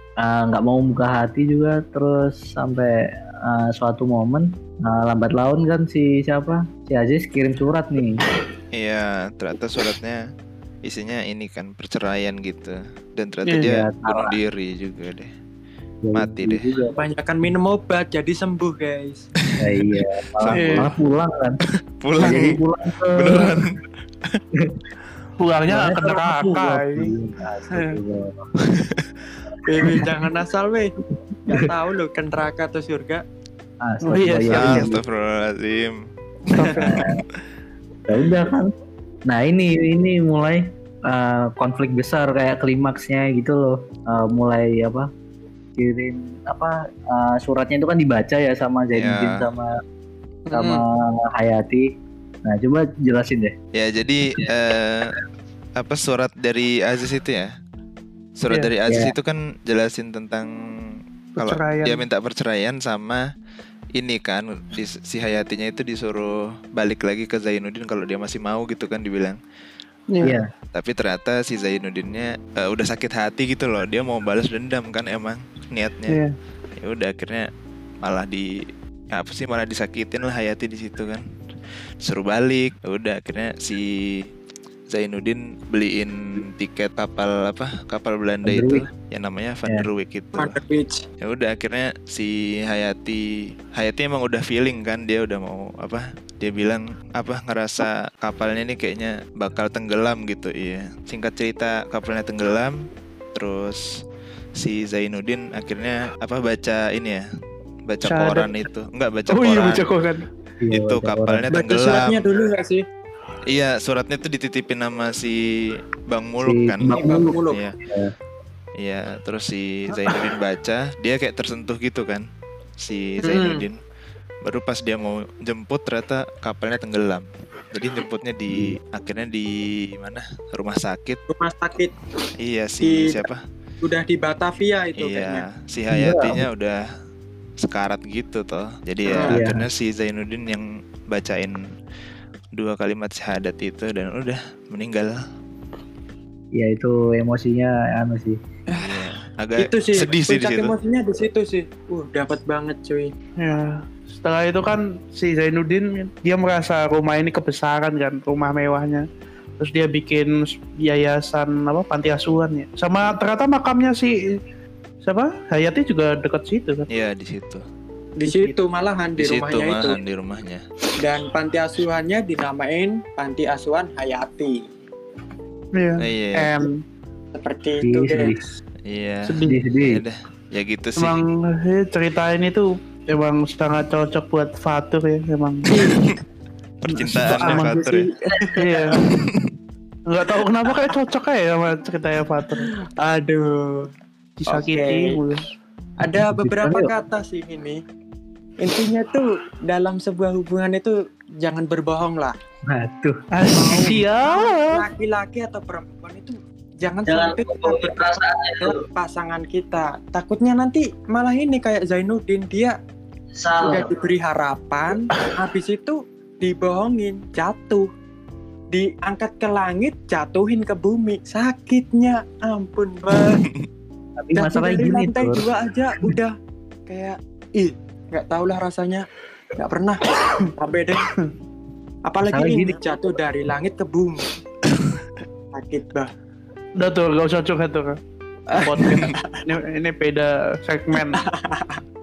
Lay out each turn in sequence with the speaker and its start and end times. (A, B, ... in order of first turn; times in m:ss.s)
0:00.2-0:08.2 A
0:08.8-0:10.2 B
0:10.8-0:15.3 B
0:13.6-0:14.4 A
0:16.0-0:17.0 A
0:16.2-0:16.7 B
0:16.9-0:19.3 C
0:19.6-0:20.9 B
0:19.6-0:21.6 A
0:20.5-0:20.9 D
0:22.0-0:22.6 B
0:22.2-0:23.6 A
0:23.1-0:24.4 B
0:24.6-0:24.9 A
0:25.4-0:27.1 D
0:25.7-0:28.4 A
0:27.7-0:28.0 D
0:28.7-0:29.0 B
0:29.6-0:30.9 C
0:29.8-0:30.1 A
0:31.5-0:33.2 C
0:33.8-0:35.0 A
0:34.0-0:35.0 D
0:34.5-0:36.0 B
0:36.5-0:37.1 D
0:36.8-0:37.0 B
0:36.8-0:37.2 A
0:38.1-0:38.7 A
0:39.3-0:45.1 A
0:45.8-0:49.7 A
0:49.0-0:49.5 B
0:50.5-0:50.8 C
0:50.5-0:51.9 A
0:52.5-0:53.5 A
0:53.8-0:55.2 B
0:55.8-0:57.5 B
0:58.4-1:00.5 B
0:58.9-0:59.1 A
1:01.4-1:02.0 D
1:01.4-1:03.2 B
1:04.0-1:09.4 B
1:10.1-1:10.4 D
1:10.2-1:10.5 A
1:10.7-1:16.2 B
1:16.1-1:16.3 D
1:16.8-1:17.5 B
1:18.0-1:18.5 B
1:19.1-1:21.3 B
1:22.0-1:24.3 B
1:24.9-1:30.6 B
1:28.4-1:28.9 A
1:30.4-1:31.0 C
1:31.2-1:42.8 B
1:43.3-1:43.8 B
1:44.6-1:47.3 B
1:47.9-1:49.9 B
1:48.0-1:48.7 D
1:49.3-1:50.3 D
1:50.6-1:51.5 A
1:50.7-1:52.2 B
1:51.5-1:52.8 C
1:53.5-1:55.4 B
1:56.1-1:57.8 B
1:56.4-1:58.1 A
1:57.0-1:57.6 C
1:58.8-2:02.2 B
2:02.8-2:03.8 B
2:03.2-2:03.6 C
2:04.4-2:11.2 B
2:08.5-2:08.8 A
2:11.3-2:12.0 C
2:12.4-2:13.4 B
2:12.8-2:13.3 C
2:13.8-2:15.5 C
2:15.0-2:16.8 B
2:15.9-2:16.4 A
2:17.6-2:21.6 B
2:19.1-2:19.4 C
2:19.3-2:19.7 A
2:22.6-2:25.2 B
2:26.6-2:28.4 A
2:28.8-2:30.7 B
2:29.6-2:33.1 C
2:33.4-2:39.1 D
2:39.6-2:44.4 D
2:45.0-2:46.9 D
2:46.9-2:47.6 B
2:48.2-2:50.0 C
2:48.2-2:48.6 D
2:49.2-2:50.6 B
2:51.0-2:54.6 C
2:55.8-2:56.8 D
2:56.0-2:56.6 B
2:57.3-2:58.4 C
2:57.8-2:58.4 A
2:58.9-3:01.2 B
2:59.2-2:59.6 D
2:59.4-3:00.0 A
3:01.0-3:06.0 D
3:05.7-3:06.1 C
3:06.8-3:08.1 B
3:06.9-3:09.1 D
3:07.5-3:09.0 C
3:09.0-3:09.5 B
3:10.1-3:12.7 D
3:12.6-3:13.9 C
3:14.4-3:15.5 D
3:14.5-3:15.2 C
3:16.0-3:17.8 C
3:16.3-3:16.9 A
3:18.6-3:22.4 C
3:22.7-3:23.2 A
3:23.4-3:24.8 D
3:23.6-3:28.0 C
3:27.1-3:28.8 E
3:28.6-3:32.8 C
3:33.4-3:33.9 E
3:33.6-3:37.9 C
3:38.7-3:43.4 C
3:44.2-3:45.5 A
3:44.4-3:46.4 C
3:46.9-3:50.0 C
3:50.6-3:51.1 C
3:52.1-3:54.3 C
3:52.2-3:52.8 A
3:55.5-3:56.1 C
3:56.8-3:58.0 D
3:58.5-3:59.4 C
3:58.6-4:01.2 D
4:01.0-4:01.8 C